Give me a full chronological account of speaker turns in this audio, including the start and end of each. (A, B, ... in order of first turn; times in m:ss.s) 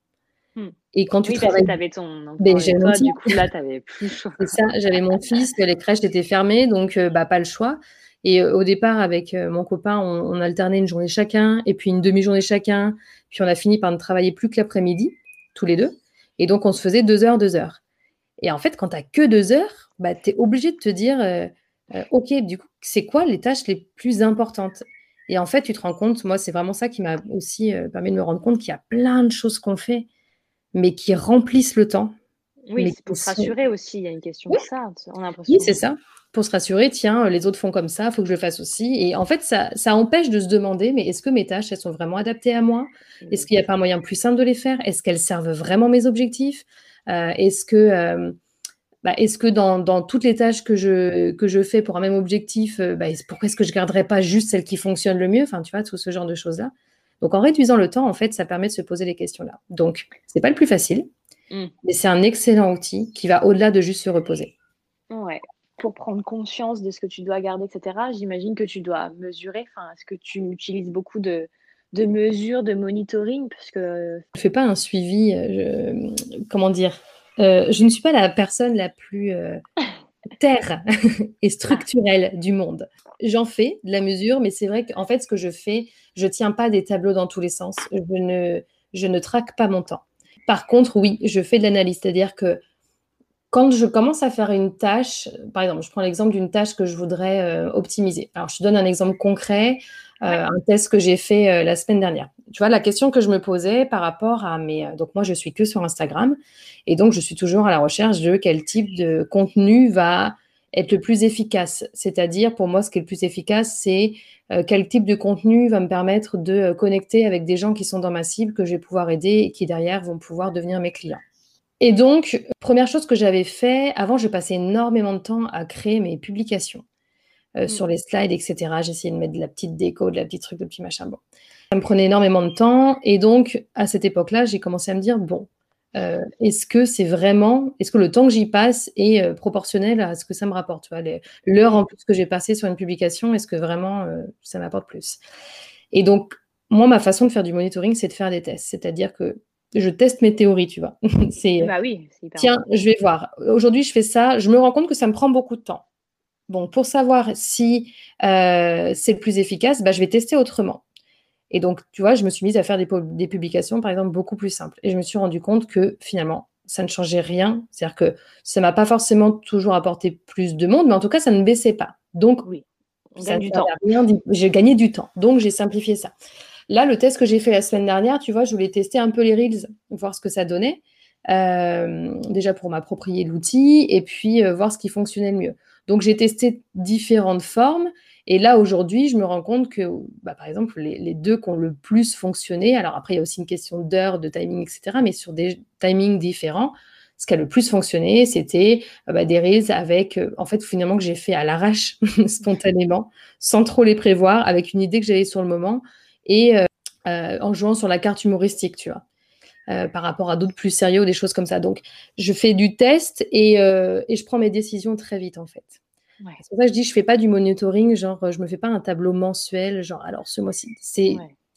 0:00.6-0:04.6 A
0:00.9-0:01.8 B
0:02.4-0:03.4 B
0:04.4-0:17.8 B
0:18.4-0:30.1 B
0:30.7-0:32.1 B
0:32.7-0:35.8 A
0:32.8-0:33.5 B
0:35.5-0:48.4 B
0:43.2-0:43.5 A
0:49.0-1:01.1 B
1:01.8-1:04.5 B
1:05.1-1:14.2 A
1:14.3-1:19.6 B
1:20.4-1:32.6 B
1:33.5-2:01.2 B
2:01.8-2:06.8 B
2:07.6-2:11.2 B
2:11.7-2:25.2 B
2:21.6-2:21.8 A
2:25.9-2:31.7 B
2:31.6-2:32.6 A
2:32.4-2:35.8 B
2:36.5-2:40.8 B
2:41.5-2:52.4 B
2:53.1-2:53.7 A
2:53.2-2:56.1 B
2:56.7-3:29.0 B
3:29.7-3:35.8 B
3:36.4-3:41.2 B
3:41.1-3:41.3 A